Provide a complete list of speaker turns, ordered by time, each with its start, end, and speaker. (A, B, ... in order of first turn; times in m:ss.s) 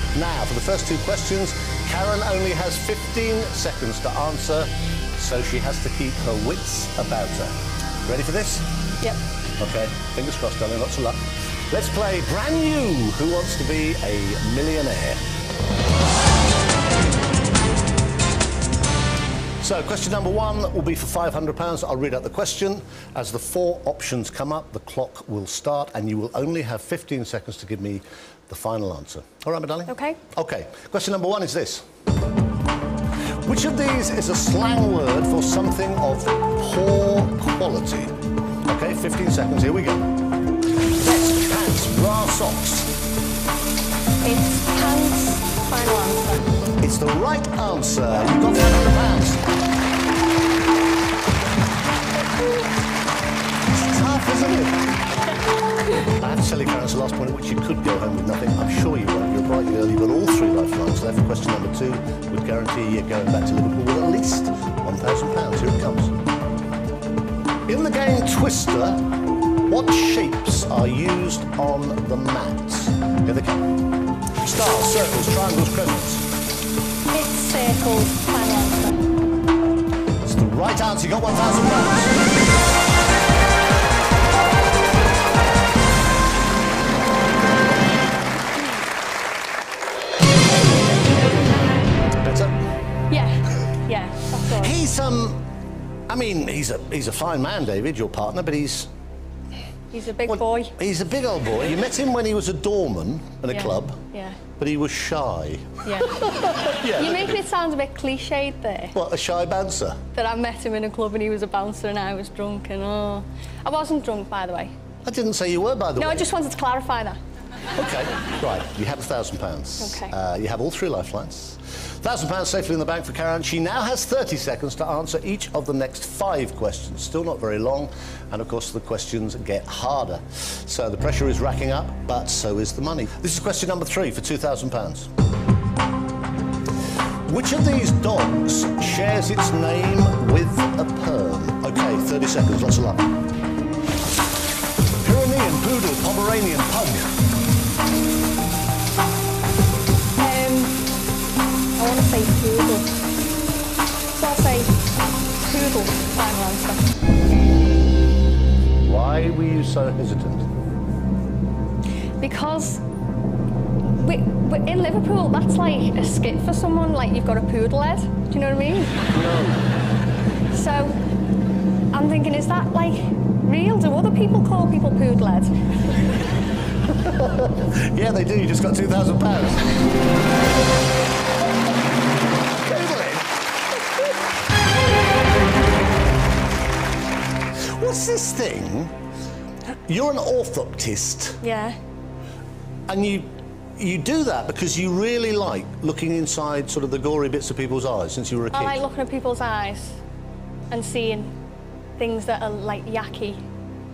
0:00.1-0:08.7 A
0:09.6-0:15.2 A
0:19.6-0:31.8 A
0:29.9-0:30.2 B
0:33.4-0:38.2 A
0:38.7-0:40.1 A
0:41.0-0:42.9 A
0:44.2-0:46.6 B
0:46.8-0:49.4 A
0:53.7-0:54.8 A
0:56.0-1:06.1 A
1:07.7-1:09.0 A
1:09.7-1:13.7 A
1:14.4-1:16.3 A
1:17.1-1:19.0 B
1:20.2-1:22.2 A
1:32.1-1:32.6 A
1:33.1-1:34.8 B
1:34.4-1:35.4 A
1:36.1-1:38.9 A
1:39.9-1:40.8 B
1:40.2-1:44.0 A
1:43.5-1:44.4 B
1:44.6-1:47.4 A
1:45.8-1:49.0 B
1:48.9-1:50.0 A
1:50.1-1:54.7 B
1:55.0-1:56.3 A
1:56.0-1:57.2 B
1:57.7-2:15.1 A
1:59.8-2:00.1 B
2:17.3-2:23.1 A
2:25.0-2:27.0 A
2:30.2-2:30.8 B
2:31.8-2:32.9 B
2:34.1-2:34.8 B
2:35.4-2:36.9 B
2:38.8-2:40.5 A
2:42.2-2:42.8 B
2:44.0-2:49.0 B
2:49.1-2:49.6 A
2:50.5-2:51.0 B
2:51.9-2:55.5 B
2:56.9-2:59.7 A
3:02.6-3:03.3 A
3:07.6-3:08.9 A
3:09.9-3:11.4 A
3:11.4-3:11.8 B
3:12.9-3:18.8 A
3:18.5-3:20.0 B
3:20.7-3:21.4 B
3:22.0-3:23.4 B